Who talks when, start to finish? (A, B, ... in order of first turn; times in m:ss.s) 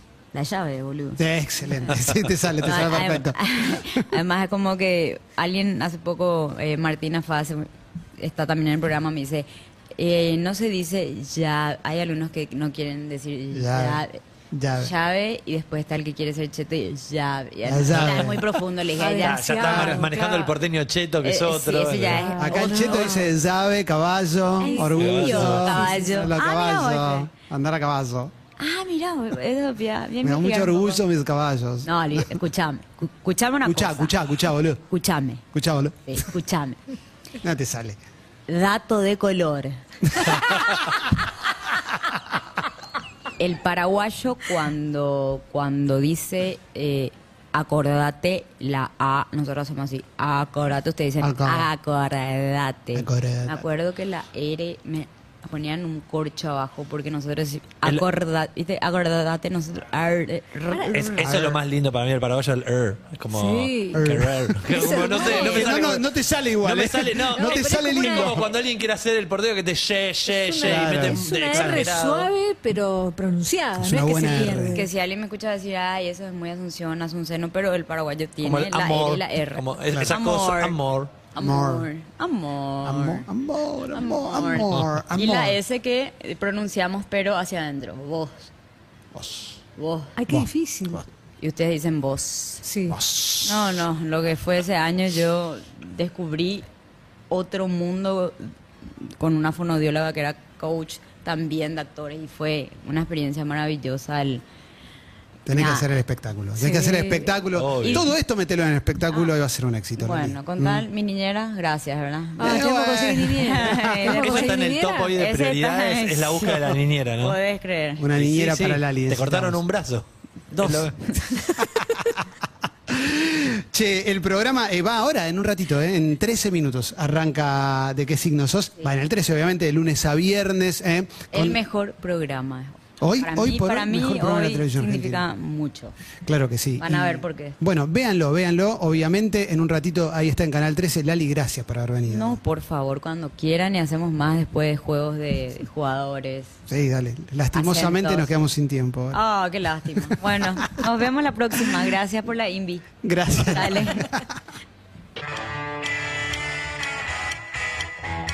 0:00.3-0:01.2 A
0:01.2-0:04.0 B
0:02.6-0:14.2 A
0:13.5-0:14.9 B
0:14.7-0:19.8 A
0:17.6-0:18.5 B
0:17.9-0:18.2 C
0:18.9-0:20.5 D
0:19.2-0:22.3 C
0:19.6-0:20.1 B
0:21.2-0:23.3 A
0:22.0-0:23.3 D
0:22.4-0:28.3 B
0:24.6-0:27.3 A
0:24.6-0:26.3 D
0:25.0-0:25.8 C
0:28.6-0:31.0 A
0:30.2-0:32.4 B
0:31.8-0:34.2 A
0:33.6-0:34.8 B
0:34.9-0:35.4 A
0:35.5-0:36.3 B
0:36.1-0:36.8 A
0:37.4-0:38.0 B
0:38.5-0:40.2 A
0:40.1-0:40.7 B
0:43.4-1:01.2 A
0:51.2-0:51.7 B
0:52.9-0:53.6 B
1:00.7-1:01.2 D
1:00.9-1:12.3 C
1:01.2-1:01.6 B
1:03.3-1:04.0 D
1:03.9-1:08.4 B
1:04.7-1:06.0 D
1:05.1-1:05.6 A
1:07.3-1:08.5 D
1:10.3-1:14.9 D
1:10.6-1:11.8 B
1:13.8-1:14.8 B
1:14.7-1:20.8 A
1:18.4-1:21.1 C
1:19.9-1:20.2 B
1:21.3-1:23.3 A
1:21.4-1:21.9 B
1:22.8-1:25.6 B
1:23.9-1:28.5 A
1:29.1-1:29.6 B
1:29.8-1:30.2 A
1:30.2-1:31.0 D
1:30.3-1:31.1 B
1:31.4-1:32.6 A
1:32.6-1:33.0 D
1:32.9-1:33.8 B
1:33.4-1:36.7 A
1:37.3-1:44.4 A
1:45.4-1:50.8 B
1:45.5-1:45.9 A
1:46.6-1:47.3 D
1:47.5-1:48.0 C
1:47.8-1:48.1 A
1:50.0-1:52.7 A
1:52.4-1:55.1 D
1:52.4-1:54.0 B
1:53.3-1:58.1 A
1:54.0-1:57.4 C
1:58.0-1:59.6 B
1:58.2-2:00.0 C
2:00.5-2:01.6 A
2:00.6-2:01.0 C
2:02.9-2:11.6 B
2:11.3-2:15.9 A
2:13.0-2:15.2 B
2:16.2-2:22.4 B
2:16.8-2:17.6 A
2:22.1-2:26.6 A
2:26.7-2:29.2 B
2:27.5-2:28.3 A
2:29.1-2:34.2 A
2:33.0-2:34.3 B